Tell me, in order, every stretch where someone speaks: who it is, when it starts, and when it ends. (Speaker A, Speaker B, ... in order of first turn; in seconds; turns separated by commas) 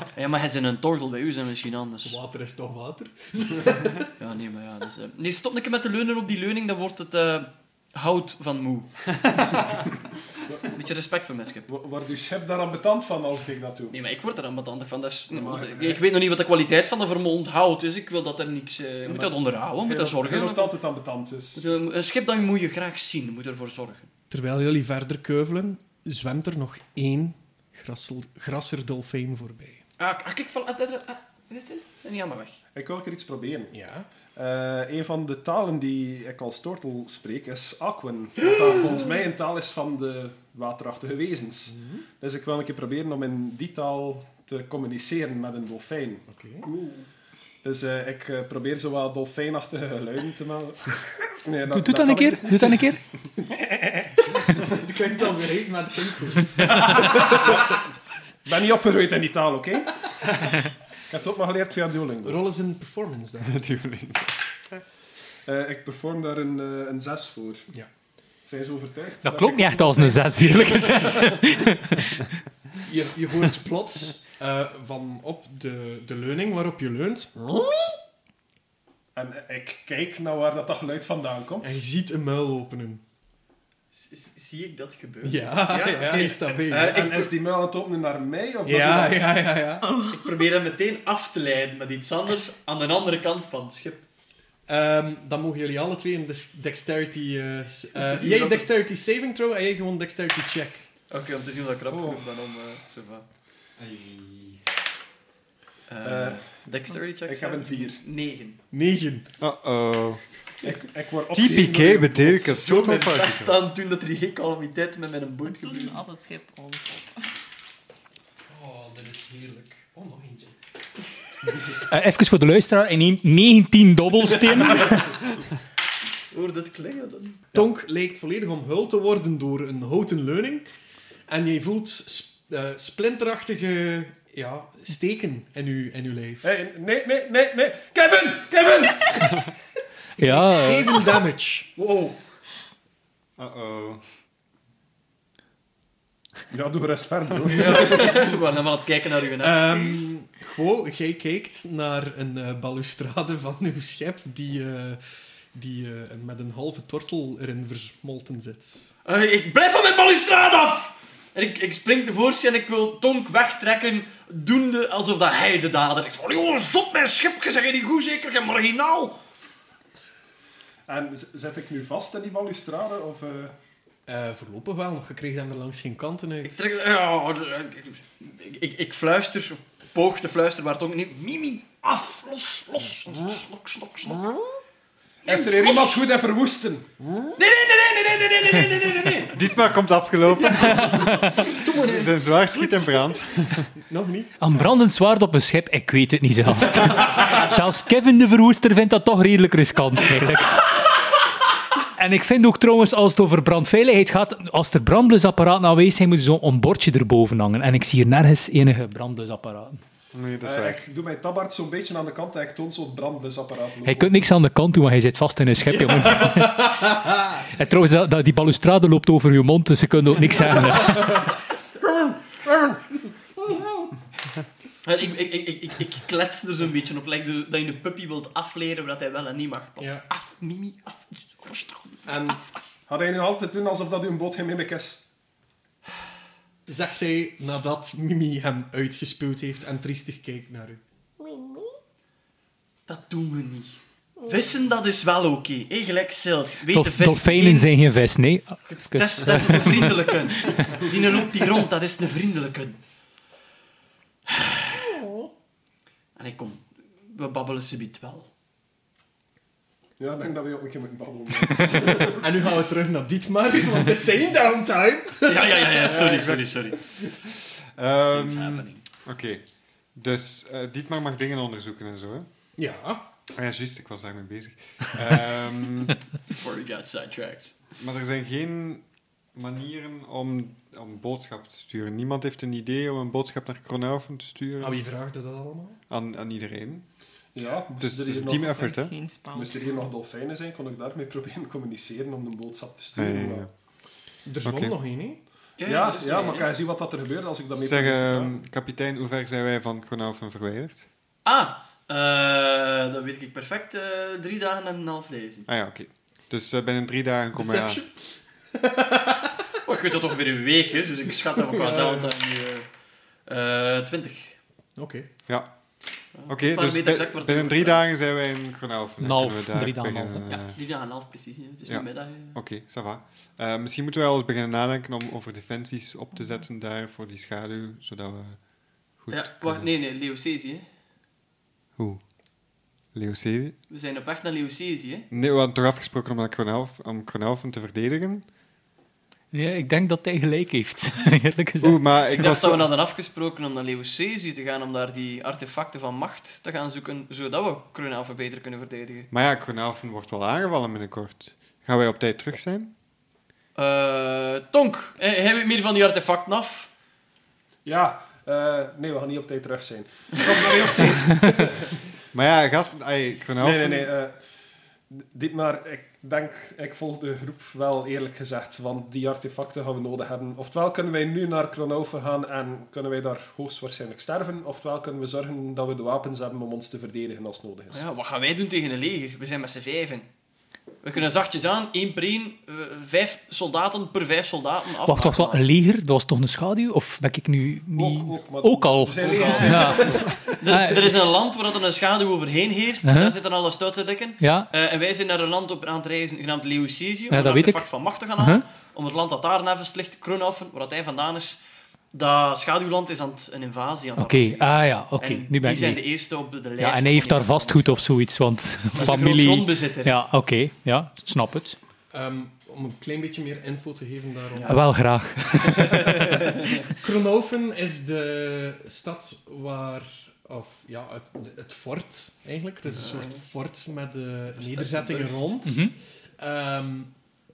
Speaker A: 0.1-2.2, Speaker B: 2.0-4.1, Speaker A: 4.2-9.0, Speaker A: 10.7-11.7, Speaker C: 11.7-13.9, Speaker A: 13.9-20.7, Speaker C: 15.3-16.0, Speaker C: 19.1-21.6, Speaker A: 21.6-24.1, Speaker B: 24.3-29.8, Speaker A: 30.0-32.6, Speaker C: 32.7-33.7, Speaker B: 33.7-34.1, Speaker C: 34.3-47.0, Speaker B: 41.7-42.0, Speaker B: 46.3-46.7, Speaker C: 47.6-53.0, Speaker D: 51.7-53.0, Speaker B: 54.4-57.5, Speaker C: 57.2-57.8, Speaker C: 58.4-60.0, Speaker C: 61.1-62.4, Speaker B: 62.2-63.6, Speaker E: 63.4-64.3, Speaker C: 65.5-67.7, Speaker C: 68.5-71.3, Speaker D: 69.2-72.2, Speaker B: 72.8-78.0, Speaker C: 79.1-81.8, Speaker B: 81.6-83.0, Speaker A: 83.9-87.3, Speaker B: 85.2-87.0, Speaker C: 86.8-89.2, Speaker B: 88.7-89.9, Speaker F: 89.9-90.2, Speaker A: 90.1-94.0, Speaker B: 94.7-100.8, Speaker A: 98.0-98.7, Speaker A: 101.1-103.2, Speaker C: 101.9-102.2, Speaker E: 103.8-104.6, Speaker A: 105.9-108.6, Speaker C: 106.0-106.6, Speaker C: 107.2-108.0, Speaker B: 108.7-109.3, Speaker E: 109.4-110.2, Speaker C: 110.6-112.6, Speaker E: 111.3-113.6, Speaker A: 112.5-116.0, Speaker F: 115.5-117.2, Speaker B: 118.5-120.5, Speaker D: 121.9-125.2, Speaker A: 126.3-127.4, Speaker B: 127.5-130.6, Speaker B: 131.3-136.5, Speaker C: 136.4-139.4, Speaker B: 140.2-141.7, Speaker D: 140.2-140.9, Speaker A: 141.8-142.2, Speaker E: 143.4-144.0, Speaker C: 146.5-148.4, Speaker A: 147.5-150.0, Speaker B: 149.4-158.9, Speaker A: 159.0-169.2, Speaker C: 170.9-173.6, Speaker B: 174.1-176.6, Speaker A: 176.4-184.3, Speaker A: 185.2-186.1, Speaker C: 185.2-186.9, Speaker A: 187.4-189.4, Speaker E: 189.3-193.7, Speaker D: 190.5-191.4, Speaker A: 191.1-192.2, Speaker B: 193.7-194.4, Speaker D: 194.4-201.1, Speaker D: 201.8-209.8, Speaker E: 210.1-210.8, Speaker C: 210.4-214.3, Speaker D: 213.8-221.3, Speaker B: 216.2-216.8, Speaker B: 223.3-223.9, Speaker A: 224.8-232.1, Speaker B: 229.8-230.0, Speaker B: 232.1-232.4, Speaker C: 232.9-235.0, Speaker B: 236.7-241.5, Speaker A: 242.9-247.7, Speaker D: 246.7-250.8, Speaker A: 248.7-252.8, Speaker A: 254.3-254.8, Speaker B: 254.8-255.3, Speaker A: 256.1-258.3, Speaker C: 260.0-262.2, Speaker B: 262.0-266.0, Speaker A: 265.2-266.8, Speaker E: 265.8-266.5, Speaker E: 267.8-272.3, Speaker A: 268.1-268.8, Speaker B: 272.6-273.1, Speaker E: 273.3-276.0, Speaker A: 276.3-277.6, Speaker E: 277.8-284.8, Speaker B: 284.6-285.8, Speaker E: 285.9-286.9, Speaker C: 287.3-288.6, Speaker E: 287.8-288.9, Speaker F: 288.4-289.9, Speaker C: 289.3-293.5, Speaker E: 292.9-293.5, Speaker B: 294.2-295.2, Speaker E: 294.4-294.7, Speaker A: 295.6-296.5, Speaker C: 295.6-298.3, Speaker E: 297.5-300.8, Speaker A: 301.2-305.5, Speaker E: 305.5-307.8, Speaker B: 307.3-309.6, Speaker A: 309.6-312.7, Speaker B: 311.4-312.1, Speaker A: 313.2-314.4, Speaker B: 314.8-315.1, Speaker E: 315.3-315.5, Speaker A: 316.1-317.9, Speaker E: 316.3-320.6, Speaker D: 319.0-320.3, Speaker A: 320.3-322.4, Speaker E: 321.6-328.4, Speaker E: 329.0-329.7, Speaker A: 329.1-330.6, Speaker E: 331.8-332.0, Speaker E: 332.9-333.6, Speaker A: 333.7-335.1, Speaker E: 335.1-338.2, Speaker D: 339.3-341.8, Speaker E: 341.6-342.7, Speaker A: 342.1-349.1, Speaker E: 349.1-352.7, Speaker A: 353.5-356.7, Speaker C: 357.6-361.7, Speaker E: 362.1-363.9, Speaker C: 363.4-364.2, Speaker C: 364.9-377.8, Speaker A: 377.7-380.1, Speaker A: 380.8-385.4, Speaker D: 384.8-390.9, Speaker C: 387.7-390.3, Speaker A: 388.9-401.4, Speaker D: 392.8-393.1, Speaker D: 394.2-394.5, Speaker D: 397.1-398.4, Speaker A: 401.9-407.9, Speaker D: 404.0-405.8, Speaker D: 406.6-411.6, Speaker A: 408.8-410.0, Speaker B: 411.9-414.6, Speaker A: 414.3-414.6, Speaker D: 414.4-416.2, Speaker A: 416.2-416.4, Speaker B: 416.7-426.9, Speaker A: 422.8-423.2, Speaker A: 424.6-424.8, Speaker D: 425.4-425.7